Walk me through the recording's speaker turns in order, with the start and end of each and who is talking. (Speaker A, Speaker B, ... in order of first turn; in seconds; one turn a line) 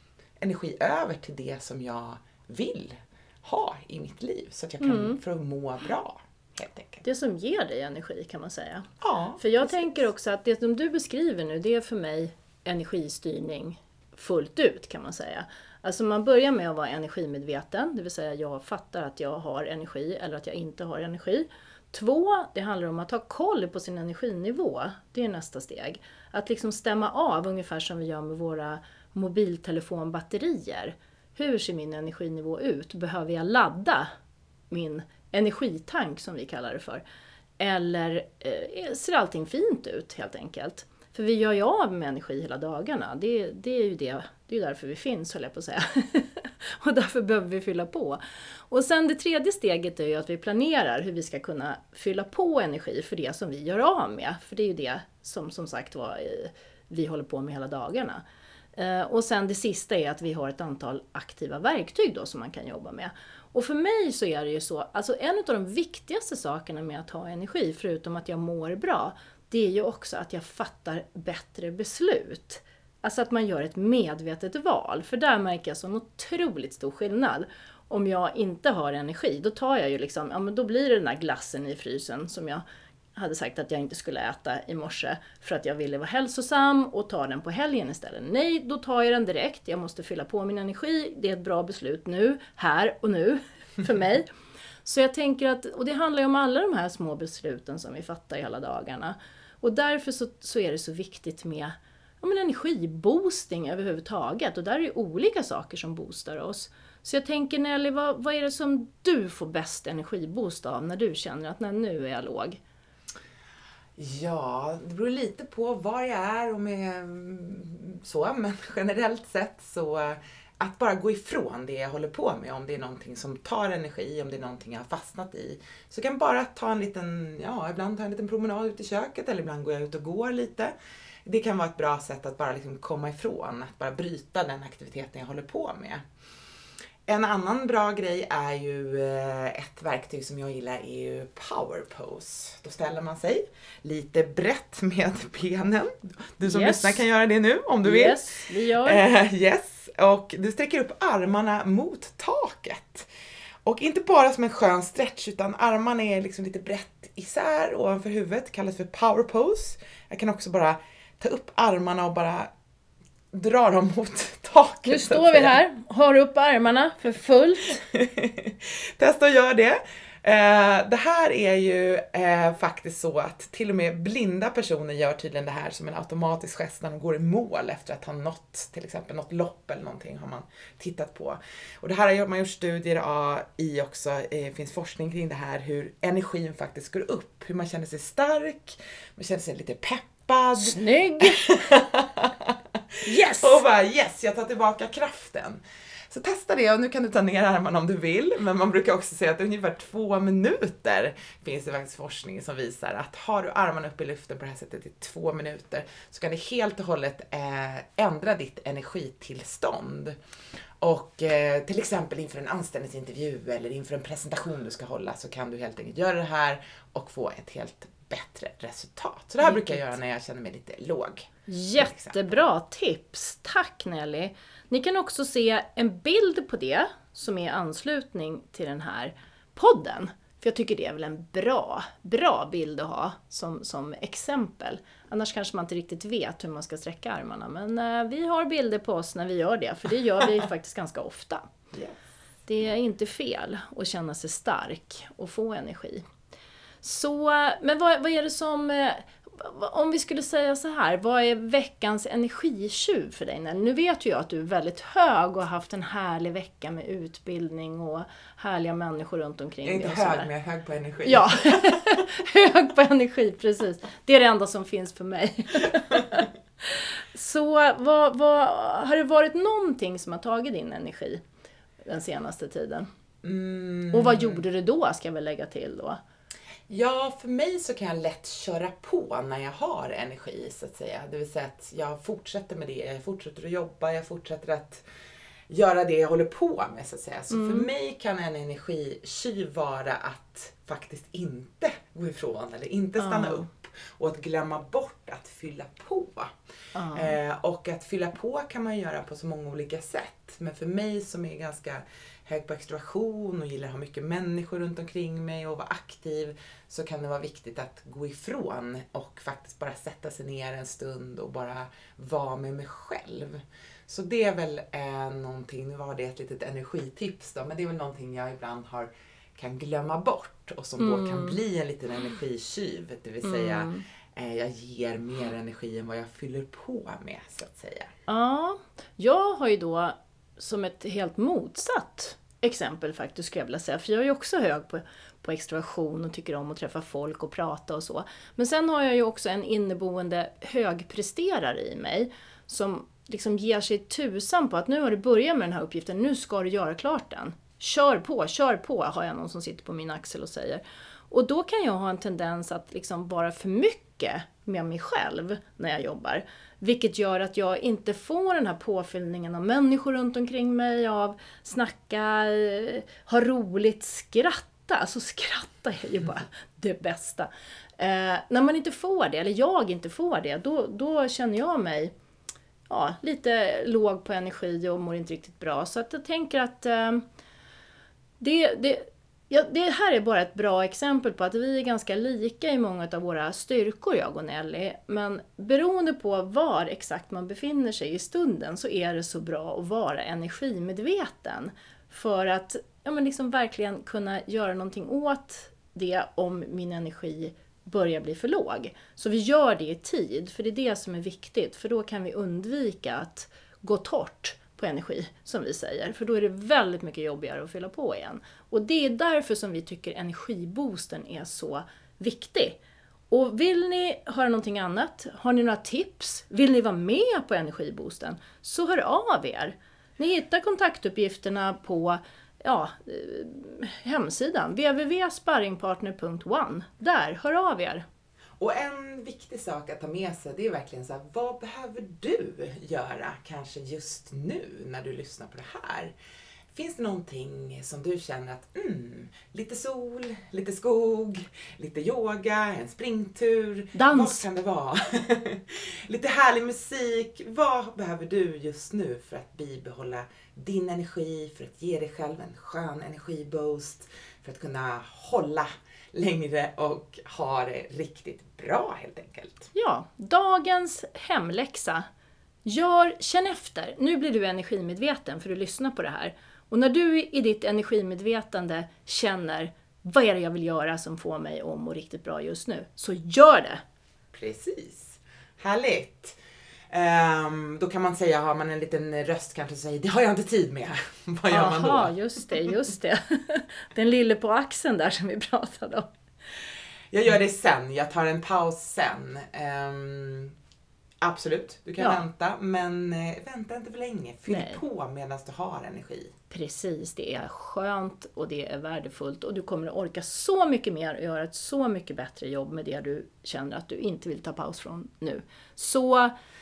Speaker A: 0.4-7.0
Speaker B: 4.8-5.2
Speaker B: 7.0-8.9
Speaker A: 9.0-10.0
Speaker B: 9.4-34.1
Speaker B: 34.7-37.0
Speaker B: 37.6-58.2
Speaker B: 58.8-82.6
Speaker B: 83.1-94.3
Speaker B: 94.8-112.6
Speaker A: 114.0-130.7
Speaker A: 131.2-136.0
Speaker A: 137.1-148.2
Speaker B: 146.4-147.0
Speaker B: 147.8-149.0
Speaker A: 148.8-153.1
Speaker A: 153.6-162.5
Speaker A: 163.3-165.6
Speaker B: 164.8-167.8
Speaker A: 167.9-192.5
Speaker B: 190.6-191.4
Speaker B: 193.0-193.6
Speaker A: 193.2-210.2
Speaker A: 210.8-222.2
Speaker B: 219.4-220.0
Speaker B: 221.5-241.4
Speaker B: 242.5-246.0
Speaker B: 246.8-260.3
Speaker A: 259.6-261.8
Speaker B: 261.0-271.2
Speaker B: 271.8-272.9
Speaker A: 273.2-274.4
Speaker B: 273.9-276.0
Speaker A: 276.7-284.8
Speaker A: 285.5-296.3
Speaker B: 287.3-287.7
Speaker B: 293.0-293.5
Speaker B: 296.7-297.1
Speaker A: 296.9-327.9
Speaker B: 320.8-321.4
Speaker B: 323.2-323.8
Speaker B: 328.1-371.9
Speaker B: 372.7-377.0
Speaker B: 378.2-412.6
Speaker B: 413.1-427.8
Speaker A: 428.4-435.9
Speaker A: 436.5-459.5
Speaker B: 443.7-444.2
Speaker B: 459.5-461.9
Speaker B: 462.4-473.6
Speaker A: 474.1-476.1
Speaker A: 476.7-481.9
Speaker B: 481.3-485.9
Speaker A: 486.9-490.3
Speaker A: 491.0-496.1
Speaker B: 491.8-492.0
Speaker B: 494.3-494.6
Speaker B: 496.3-506.1